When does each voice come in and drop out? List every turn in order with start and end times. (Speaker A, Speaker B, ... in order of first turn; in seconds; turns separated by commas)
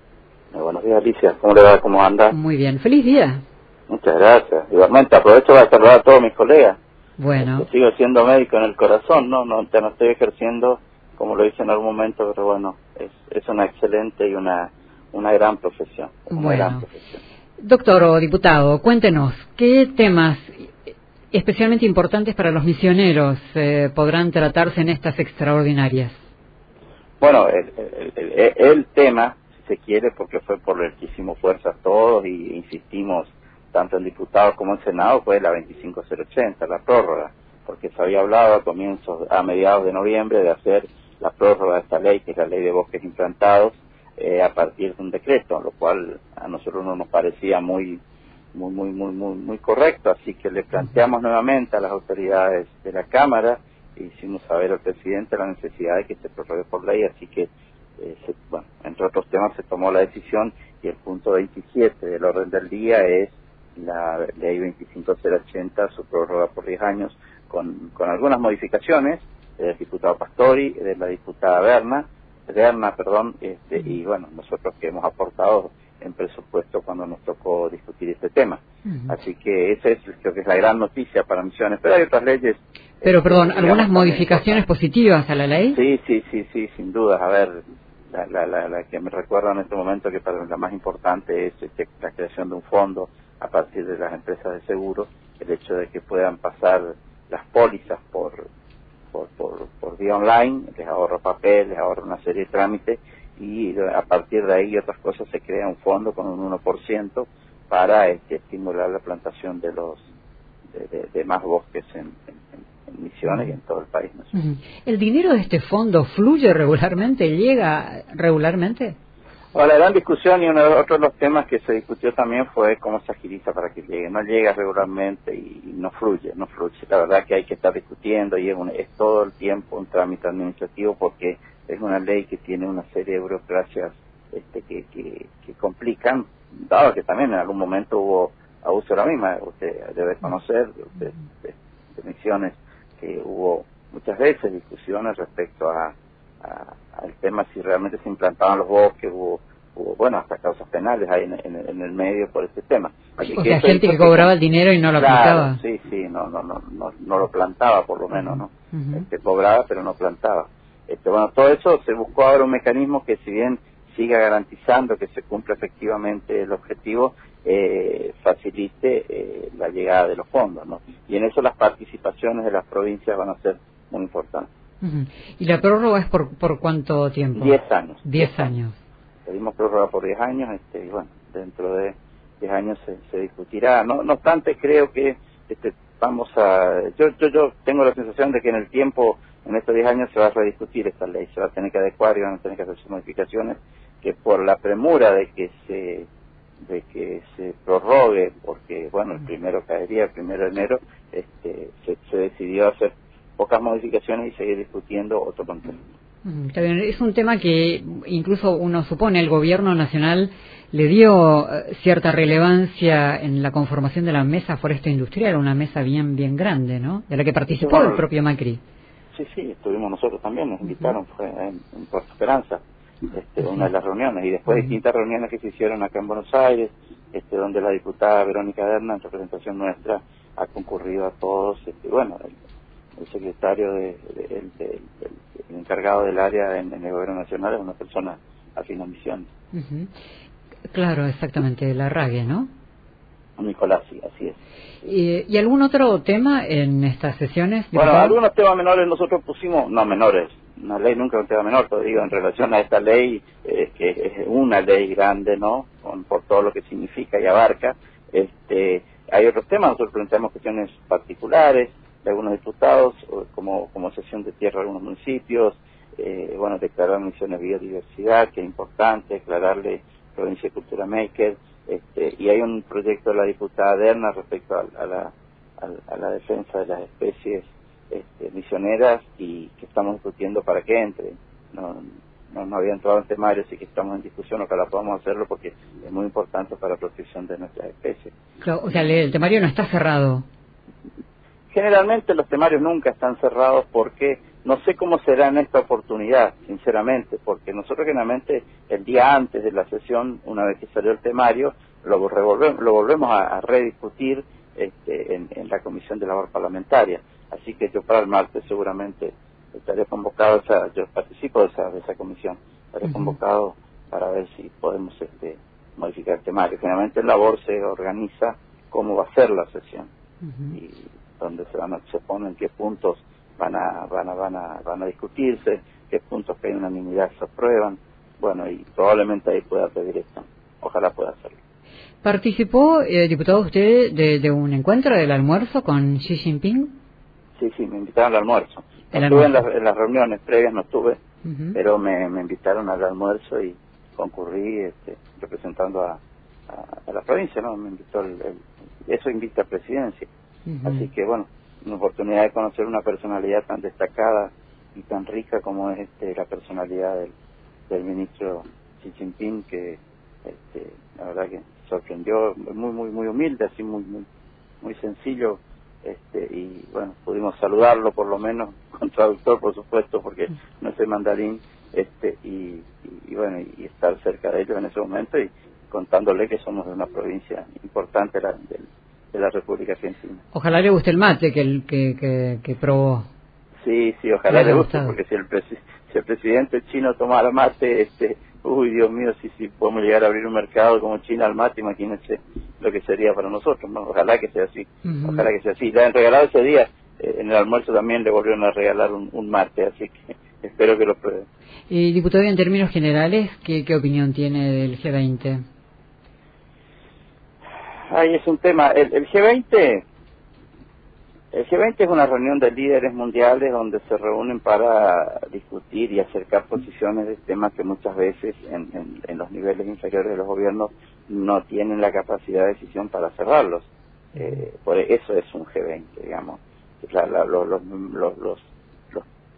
Speaker A: 0.5-2.3, Speaker B: 2.3-3.4, Speaker A: 3.9-6.8, Speaker B: 7.2-7.7, Speaker A: 7.3-17.2, Speaker B: 16.3-16.8, Speaker B: 17.6-20.7, Speaker B: 21.3-26.2, Speaker A: 27.2-48.0, Speaker A: 48.5-84.6, Speaker B: 83.0-85.8, Speaker A: 85.7-98.4, Speaker A: 99.1-110.0, Speaker A: 110.7-114.3, Speaker B: 114.3-119.0, Speaker A: 119.5-154.3, Speaker B: 153.2-155.6, Speaker A: 154.9-174.5, Speaker B: 158.1-159.0, Speaker B: 174.8-178.8, Speaker A: 177.3-178.5, Speaker A: 179.2-196.1, Speaker A: 196.6-205.8, Speaker B: 206.2-218.6, Speaker A: 217.6-218.0, Speaker A: 219.1-232.3, Speaker A: 233.0-239.3, Speaker B: 239.5-239.9, Speaker B: 240.7-242.5, Speaker A: 243.4-244.3, Speaker B: 244.8-248.2, Speaker A: 247.7-288.1, Speaker B: 288.4-290.2, Speaker A: 291.5-319.9, Speaker B: 312.9-313.1, Speaker B: 320.2-320.6, Speaker A: 320.5-331.4, Speaker B: 332.0-336.8, Speaker A: 337.4-341.0, Speaker B: 338.9-339.4, Speaker B: 341.2-341.6, Speaker A: 341.5-350.1, Speaker B: 350.5-350.9, Speaker A: 350.6-357.1, Speaker A: 357.7-364.0, Speaker A: 364.6-380.2, Speaker B: 380.3-383.1, Speaker A: 383.6-401.2, Speaker B: 384.3-384.9, Speaker B: 394.8-395.2, Speaker B: 401.7-405.4, Speaker A: 407.9-409.8, Speaker A: 411.3-429.0, Speaker B: 424.1-424.4